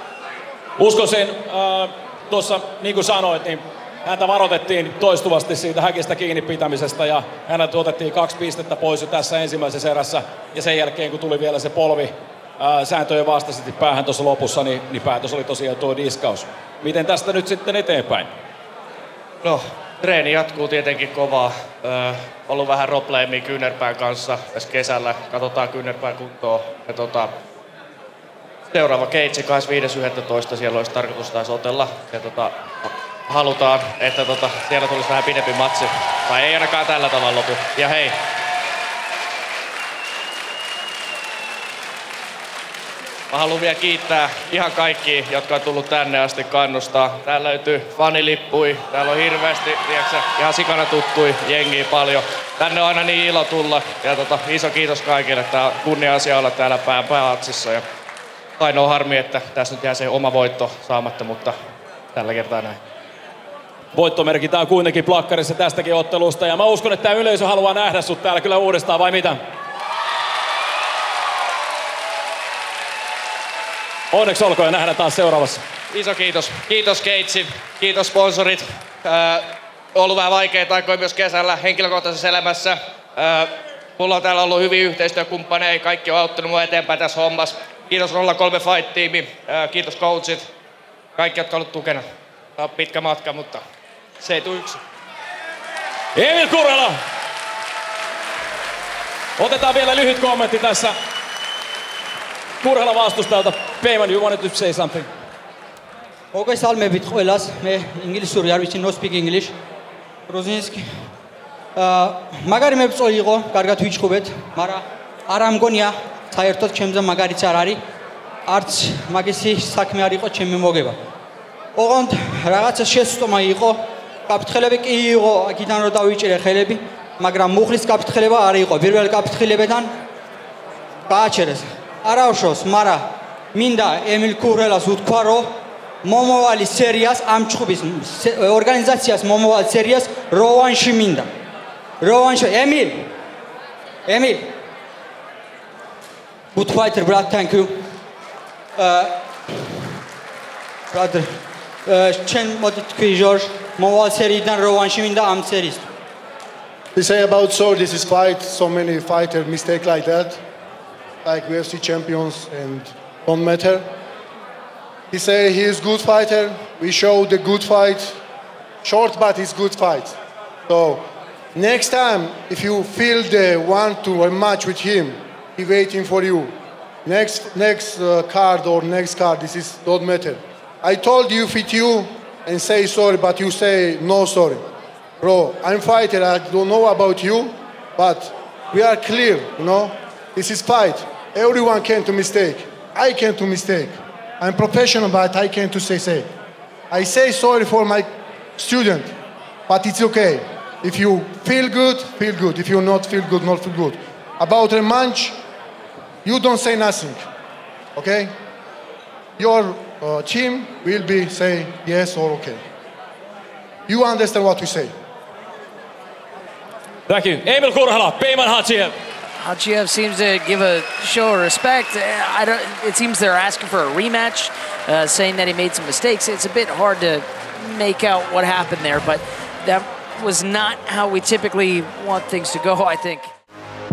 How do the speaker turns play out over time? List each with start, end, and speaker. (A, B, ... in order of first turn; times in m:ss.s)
0:00.8-0:18.3 A
0:19.4-0:27.3 B
0:28.7-0:38.2 B
0:43.3-0:57.8 B
0:58.6-1:01.6 B
1:02.1-1:02.8 B
1:03.9-1:09.4 A
1:14.1-1:15.6 A
1:15.9-1:30.5 B
1:31.2-1:32.1 B
1:32.6-1:33.6 B
1:34.2-1:34.8 B
1:36.2-1:37.0 A
1:39.4-1:41.0 A
1:42.6-1:45.1 A
1:46.3-1:49.6 C
1:50.3-1:51.0 C
1:51.8-1:57.8 C
1:58.5-2:01.0 C
2:01.8-2:10.0 C
2:11.1-2:21.3 C
2:22.0-2:23.1 C
2:24.1-2:24.6 C
2:26.5-2:27.9 C
2:28.8-2:29.3 C
2:30.9-2:35.9 C
2:37.0-2:40.4 D
2:41.2-2:43.9 D
2:45.1-2:48.2 D
2:48.8-3:04.6 D
3:05.2-3:16.3 D
3:16.9-3:19.2 D
3:19.7-3:25.4 D
3:26.2-3:27.3 D
3:28.0-3:28.3 D
3:29.4-3:32.6 D
3:33.9-3:34.9 D
3:37.1-3:39.0 A
3:39.4-3:53.3 E